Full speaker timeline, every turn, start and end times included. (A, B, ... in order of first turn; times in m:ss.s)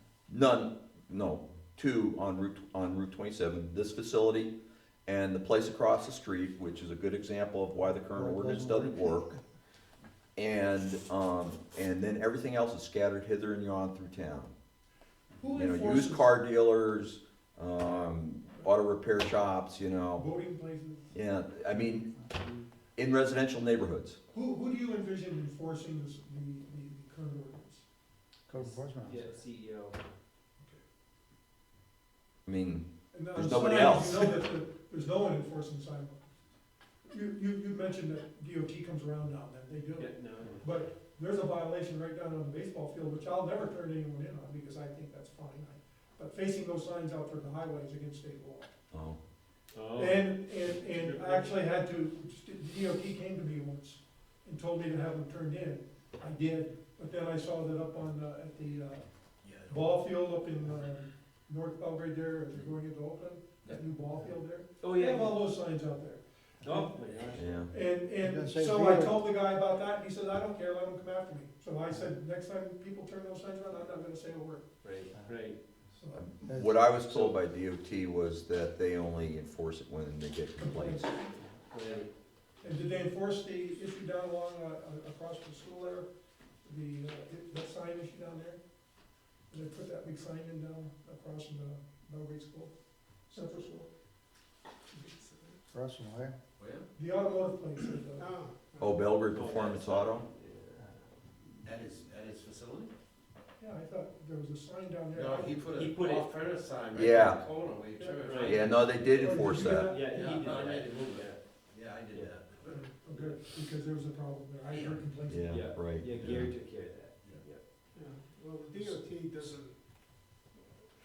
0:00.3-0:04.5 A
0:05.1-0:09.3 A
0:08.1-0:09.4 B
0:10.4-0:14.5 A
0:15.4-0:16.3 C
0:15.5-0:20.3 A
0:20.1-0:21.1 C
0:21.1-0:22.1 A
0:23.0-0:24.2 A
0:24.3-0:27.8 C
0:28.5-0:29.4 B
0:28.6-0:30.0 D
0:32.5-0:34.4 A
0:33.1-0:36.2 C
0:37.1-0:48.7 C
0:40.0-0:40.8 D
0:48.9-0:49.2 A
0:49.7-0:51.6 D
0:50.0-0:59.1 C
0:59.4-0:59.9 E
0:59.6-1:07.0 C
1:04.8-1:05.5 D
1:06.6-1:07.7 D
1:07.4-1:07.7 A
1:07.7-1:14.7 C
1:08.2-1:09.2 B
1:14.8-1:15.6 D
1:16.0-1:16.3 C
1:16.1-1:21.1 A
1:16.4-1:16.8 B
1:17.1-1:17.4 D
1:20.6-1:21.4 C
1:21.7-1:22.1 D
1:22.6-1:26.1 C
1:26.6-1:28.6 C
1:29.5-1:32.7 C
1:33.3-1:33.9 C
1:34.9-1:35.6 F
1:35.7-1:36.4 B
1:36.6-1:36.9 E
1:37.0-1:38.3 C
1:38.1-1:39.1 F
1:38.8-1:40.2 A
1:39.3-1:41.0 D
1:41.6-1:42.9 E
1:43.6-1:45.6 C
1:45.1-1:49.5 E
1:45.7-1:46.3 D
1:46.9-1:47.4 A
1:48.2-1:48.8 D
1:48.4-1:50.0 A
1:48.9-1:50.2 C
1:49.6-1:51.4 D
1:50.1-1:52.9 E
1:52.1-1:52.4 D
1:52.7-1:56.5 C
1:54.7-1:55.1 E
1:55.3-1:56.4 A
1:55.5-1:57.6 D
1:57.9-2:00.4 F